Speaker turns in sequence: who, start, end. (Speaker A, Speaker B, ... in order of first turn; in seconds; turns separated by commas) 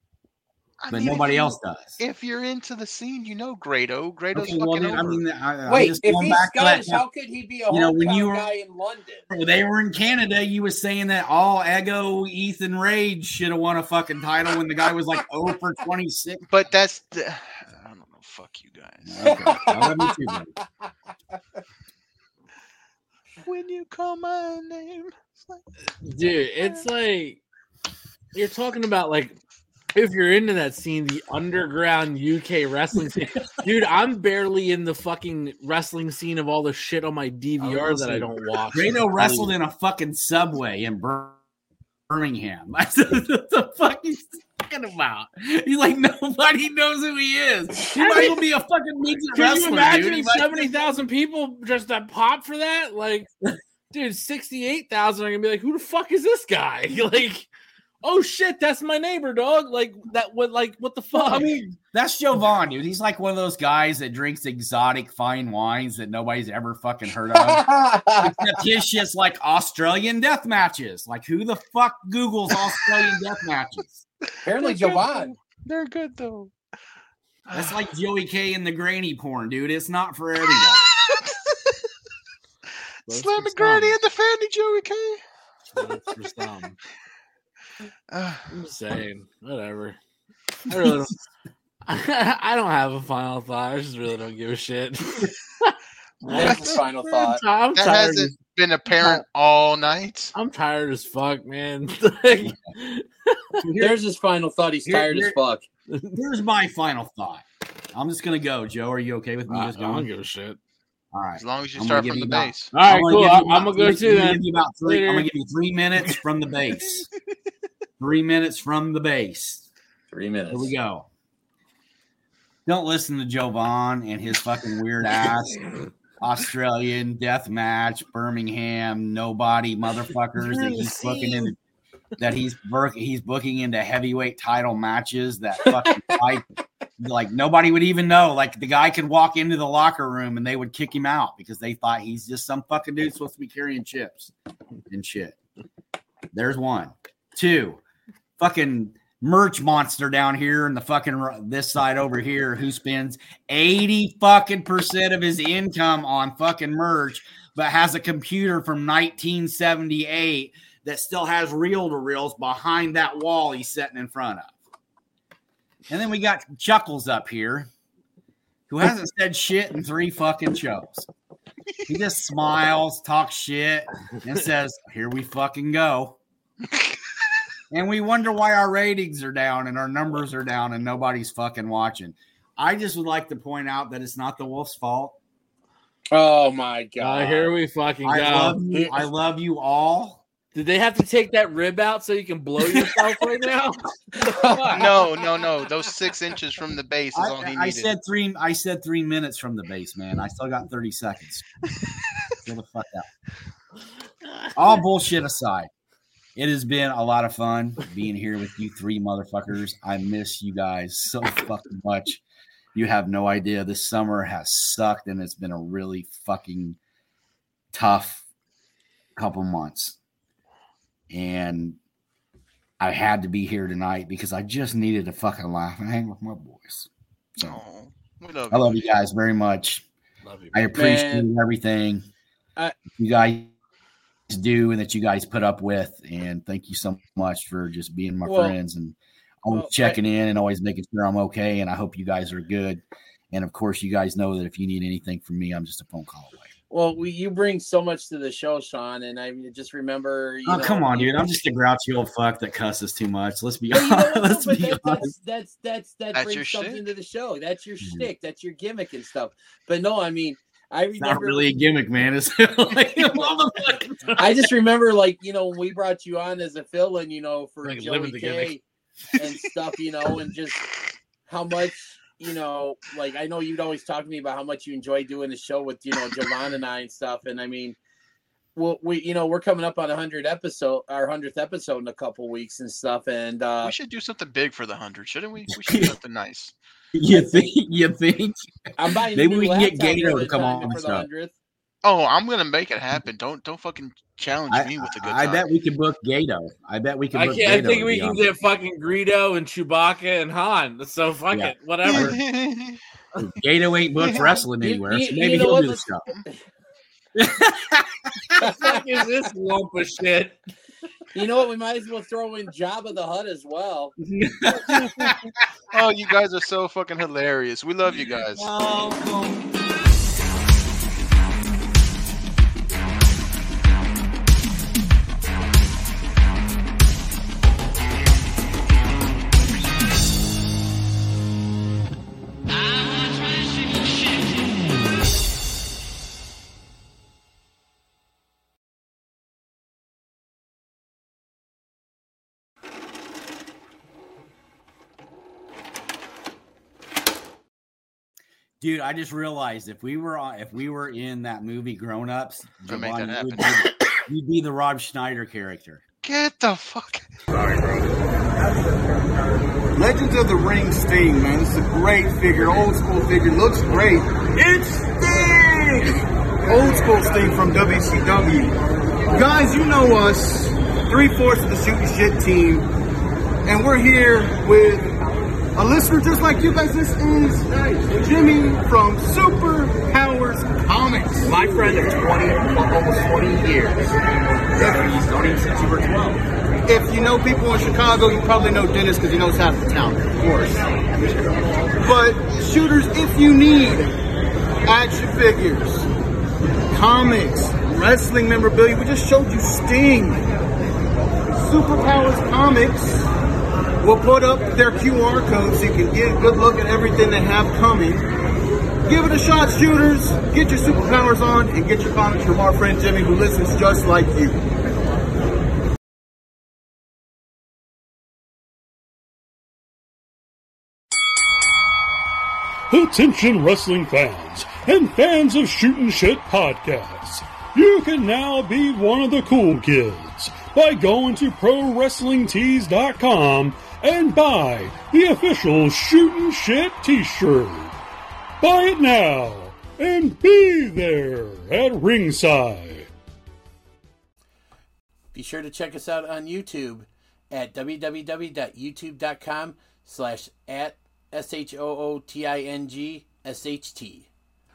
Speaker A: 0.8-5.2, Speaker B: 0.9-2.0, Speaker B: 4.3-7.1, Speaker C: 5.7-9.2, Speaker B: 7.7-8.5, Speaker B: 9.3-16.4, Speaker A: 16.5-19.2, Speaker B: 19.1-20.5, Speaker C: 19.2-20.4, Speaker A: 23.4-25.6, Speaker D: 26.0-27.4, Speaker D: 28.3-29.4, Speaker D: 29.9-39.5, Speaker B: 37.6-41.4, Speaker B: 42.1-50.7, Speaker D: 47.9-48.4, Speaker D: 49.3-53.3, Speaker D: 53.9-57.5, Speaker D: 58.0-61.5, Speaker B: 61.2-67.7, Speaker C: 67.3-68.4, Speaker B: 68.2-74.0, Speaker C: 74.5-75.3, Speaker A: 74.5-76.5, Speaker A: 77.5-77.8, Speaker B: 77.5-80.9, Speaker A: 80.6-81.8, Speaker D: 83.1-84.0, Speaker A: 83.1-85.2, Speaker D: 85.8-86.8, Speaker A: 88.1-88.5, Speaker D: 88.5-90.0, Speaker D: 90.7-91.2, Speaker D: 91.9-98.3, Speaker C: 96.3-97.4, Speaker A: 96.4-96.8, Speaker A: 97.8-100.3, Speaker D: 100.3-103.6, Speaker B: 102.4-102.7, Speaker B: 103.6-104.0, Speaker C: 103.8-105.7, Speaker B: 104.8-105.4, Speaker D: 105.9-106.2, Speaker B: 106.1-110.1, Speaker D: 109.5-110.6, Speaker B: 111.1-117.1, Speaker A: 111.4-112.7, Speaker D: 112.7-115.3, Speaker B: 118.0-119.7, Speaker C: 120.1-120.8, Speaker B: 120.5-121.1, Speaker B: 122.7-131.6, Speaker D: 130.5-131.5, Speaker B: 132.2-136.5, Speaker C: 135.6-136.3, Speaker B: 137.0-144.3, Speaker B: 144.9-145.4, Speaker B: 146.3-147.8, Speaker B: 148.4-164.6, Speaker B: 165.9-167.7, Speaker B: 168.7-171.1, Speaker B: 171.9-176.2, Speaker B: 177.7-185.2, Speaker C: 186.1-187.5, Speaker D: 187.0-188.6, Speaker B: 188.1-190.2, Speaker C: 188.7-189.0, Speaker D: 190.5-194.8, Speaker C: 194.2-195.1, Speaker A: 194.7-197.9, Speaker B: 197.1-201.6, Speaker B: 202.4-203.1, Speaker B: 204.5-205.7, Speaker B: 206.4-212.2, Speaker B: 212.8-216.8, Speaker B: 217.7-218.2, Speaker B: 219.2-220.0, Speaker B: 221.1-221.8, Speaker B: 222.8-227.6, Speaker A: 227.4-228.9, Speaker B: 228.5-229.8, Speaker D: 230.2-230.7, Speaker B: 230.5-232.1, Speaker C: 230.8-231.3, Speaker B: 232.9-233.5, Speaker B: 234.3-246.5, Speaker C: 238.2-238.6, Speaker C: 239.5-240.0, Speaker C: 246.7-251.2, Speaker B: 250.4-255.1, Speaker C: 253.7-261.5, Speaker A: 256.1-256.8, Speaker B: 257.8-258.1, Speaker B: 261.0-264.4, Speaker C: 264.2-268.6, Speaker D: 267.6-268.5, Speaker C: 269.2-270.7, Speaker C: 271.3-277.8, Speaker C: 278.6-283.7, Speaker A: 283.6-286.5, Speaker B: 285.6-285.9, Speaker B: 286.9-291.1, Speaker C: 288.8-291.3, Speaker A: 291.8-295.4, Speaker B: 294.5-298.3, Speaker D: 297.1-302.2, Speaker B: 301.3-302.2, Speaker A: 301.8-302.8, Speaker B: 303.2-306.1, Speaker A: 304.0-304.3, Speaker C: 304.6-305.9, Speaker B: 307.1-308.4, Speaker D: 308.4-310.4, Speaker C: 308.4-308.8, Speaker C: 311.1-313.9, Speaker B: 314.0-315.4, Speaker A: 315.7-318.5, Speaker B: 317.9-319.5, Speaker B: 348.6-355.8, Speaker A: 352.7-353.7, Speaker A: 356.0-357.1, Speaker E: 359.8-366.0, Speaker E: 366.5-368.6, Speaker E: 369.1-372.7, Speaker E: 373.5-374.9, Speaker E: 375.6-383.8, Speaker B: 381.2-382.1, Speaker B: 384.6-386.2, Speaker E: 386.7-390.7, Speaker E: 391.8-393.9, Speaker E: 394.7-395.9, Speaker E: 396.7-400.2, Speaker E: 401.3-403.1, Speaker E: 403.8-408.1, Speaker E: 408.9-414.4, Speaker F: 422.7-437.8, Speaker F: 438.4-442.9, Speaker C: 445.1-454.1